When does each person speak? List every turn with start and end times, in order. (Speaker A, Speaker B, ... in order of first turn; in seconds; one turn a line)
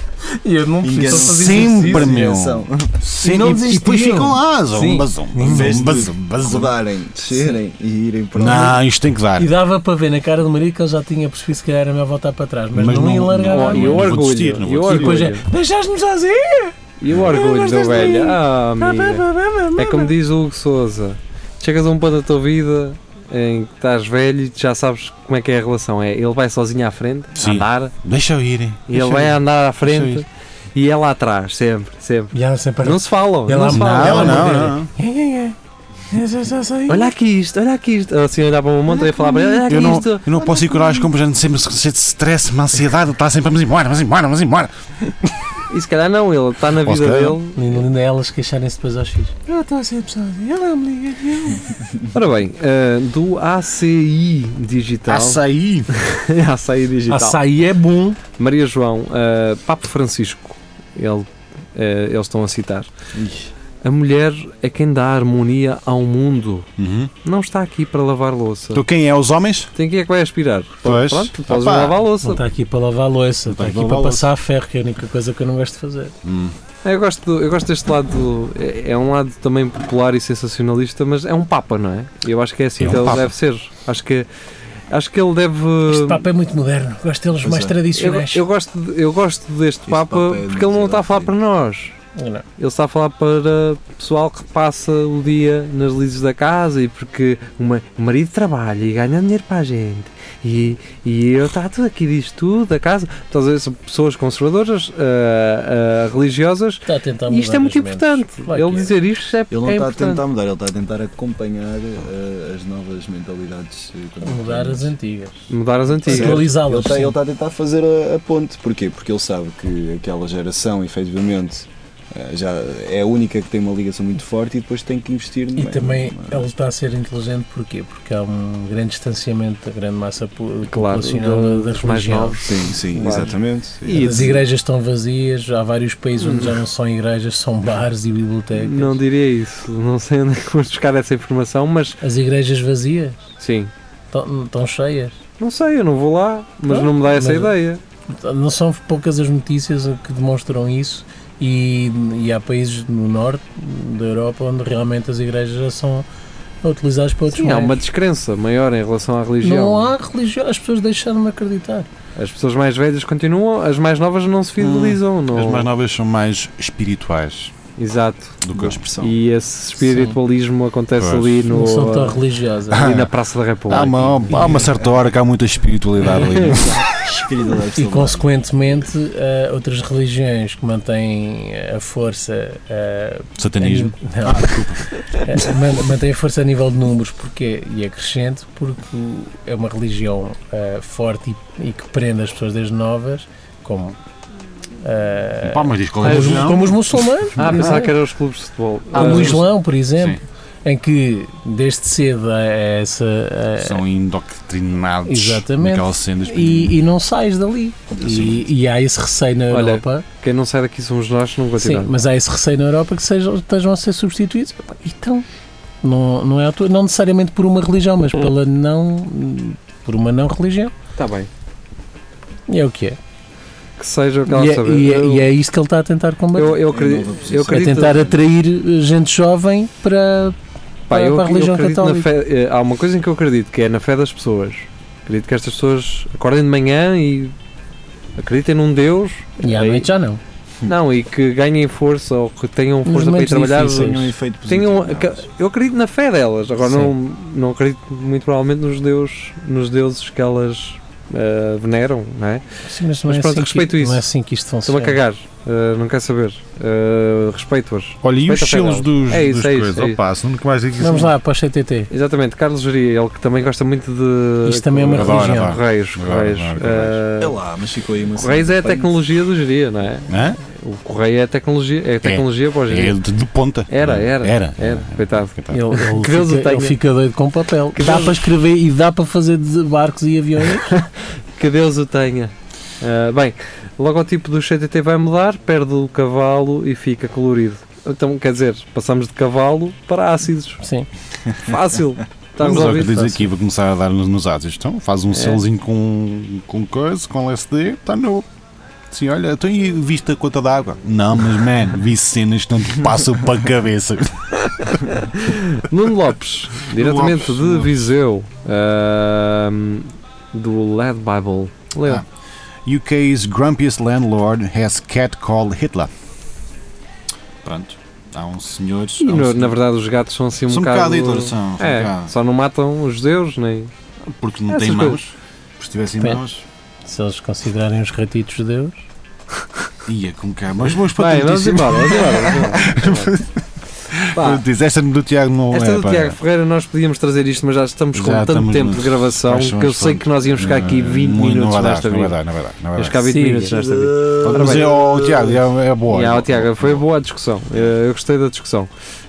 Speaker A: 0.4-2.4
Speaker B: 0.8-2.9
Speaker C: 1.0-6.7
Speaker A: 3.2-5.8
Speaker B: 5.4-8.8
Speaker C: 8.3-9.5
Speaker A: 9.4-14.1
Speaker C: 12.7-15.3
Speaker D: 13.5-15.4
Speaker A: 14.9-20.1
Speaker D: 17.0-27.9
Speaker C: 27.4-30.2
Speaker D: 28.9-34.7
Speaker A: 32.3-35.6
Speaker C: 33.6-34.9
Speaker A: 36.1-37.1
Speaker D: 36.9-40.3
Speaker A: 39.0-39.6
Speaker C: 39.6-45.4
Speaker A: 40.4-41.0
Speaker D: 45.7-47.8
Speaker C: 46.7-47.4
Speaker A: 47.5-51.8
Speaker D: 52.1-57.4
Speaker C: 55.1-55.9
Speaker A: 57.1-58.2
Speaker D: 58.4-62.9
Speaker B: 63.2-63.5
Speaker D: 63.8-66.7
Speaker C: 66.8-67.1
Speaker D: 67.2-68.8
Speaker C: 68.7-69.7
Speaker D: 69.8-72.4
Speaker C: 70.8-72.0
Speaker A: 72.2-76.1
Speaker C: 73.5-74.3
Speaker C: 76.2-76.5
Speaker D: 76.8-84.3
Speaker C: 82.8-83.3
Speaker D: 84.9-86.2
Speaker A: 85.9-88.5
Speaker B: 87.4-87.8
Speaker D: 88.0-92.0
Speaker B: 89.9-91.3
Speaker A: 92.2-92.4
Speaker D: 92.6-110.2
Speaker A: 106.9-108.9
Speaker B: 109.5-114.9
Speaker A: 114.2-115.5
Speaker D: 115.5-116.5
Speaker B: 116.0-126.5
Speaker A: 116.1-117.2
Speaker A: 125.6-133.3
Speaker D: 130.7-134.4
Speaker B: 132.5-134.4
Speaker A: 133.9-139.0
Speaker D: 136.2-136.6
Speaker D: 138.6-142.0
Speaker A: 142.0-143.2
Speaker D: 143.4-143.7
Speaker A: 144.1-145.2
Speaker D: 145.4-147.8
Speaker A: 146.7-147.5
Speaker A: 148.1-156.1
Speaker A: 156.6-157.8
Speaker D: 157.3-159.9
Speaker A: 159.4-161.9
Speaker D: 162.2-165.7
Speaker C: 164.6-167.5
Speaker D: 167.8-168.4
Speaker C: 168.4-168.8
Speaker B: 168.5-169.2
Speaker D: 169.0-174.6
Speaker A: 169.8-170.2
Speaker C: 171.0-171.4
Speaker A: 171.5-172.9
Speaker C: 172.7-173.1
Speaker C: 173.7-176.9
Speaker A: 174.3-174.7
Speaker B: 174.3-175.0
Speaker D: 176.2-176.6
Speaker B: 176.5-178.3
Speaker A: 177.8-194.0
Speaker C: 183.4-185.5
Speaker A: 194.8-197.9
Speaker C: 195.4-197.8
Speaker D: 196.0-196.6
Speaker D: 197.4-199.4
Speaker A: 198.9-203.8
Speaker C: 198.9-199.4
Speaker C: 203.6-206.8
Speaker A: 205.1-210.1
Speaker C: 208.0-208.5
Speaker D: 209.5-211.9
Speaker A: 211.6-215.3
Speaker A: 215.8-220.7
Speaker D: 221.0-221.3
Speaker A: 222.5-223.0
Speaker D: 223.8-225.3
Speaker A: 224.3-226.6
Speaker D: 226.3-228.1
Speaker B: 226.7-228.2
Speaker A: 227.5-230.4
Speaker D: 230.9-237.3
Speaker A: 230.9-232.1
Speaker D: 238.2-239.9
Speaker A: 239.4-240.2
Speaker D: 240.7-252.4
Speaker A: 242.8-244.1
Speaker B: 243.6-245.2
Speaker A: 246.6-246.9
Speaker A: 252.7-255.0
Speaker D: 253.1-254.1
Speaker D: 254.7-260.0
Speaker C: 258.0-261.1
Speaker A: 260.8-261.9
Speaker D: 261.9-267.4
Speaker A: 264.4-265.6
Speaker C: 264.9-267.0
Speaker B: 267.2-268.9
Speaker D: 268.2-273.0
Speaker C: 270.1-270.4
Speaker C: 272.0-275.6
Speaker D: 273.7-276.8
Speaker A: 275.5-280.8
Speaker D: 277.8-278.3
Speaker D: 280.6-290.6
Speaker A: 290.6-290.9
Speaker D: 291.4-293.1
Speaker C: 292.4-298.3
Speaker A: 292.7-293.2
Speaker D: 295.1-295.4
Speaker C: 298.9-304.8
Speaker D: 304.7-312.0
Speaker C: 306.7-307.9
Speaker C: 312.6-315.9
Speaker C: 317.4-319.6
Speaker D: 319.0-323.7
Speaker C: 320.5-322.1
Speaker C: 324.0-326.4
Speaker D: 324.5-325.0
Speaker A: 326.9-328.9
Speaker C: 329.9-336.2
Speaker D: 330.9-333.1
Speaker D: 334.1-334.4
Speaker D: 335.5-342.2
Speaker C: 337.9-343.1
Speaker D: 342.8-344.7
Speaker A: 343.1-343.6
Speaker B: 343.4-345.4
Speaker C: 344.2-346.8
Speaker D: 345.9-348.7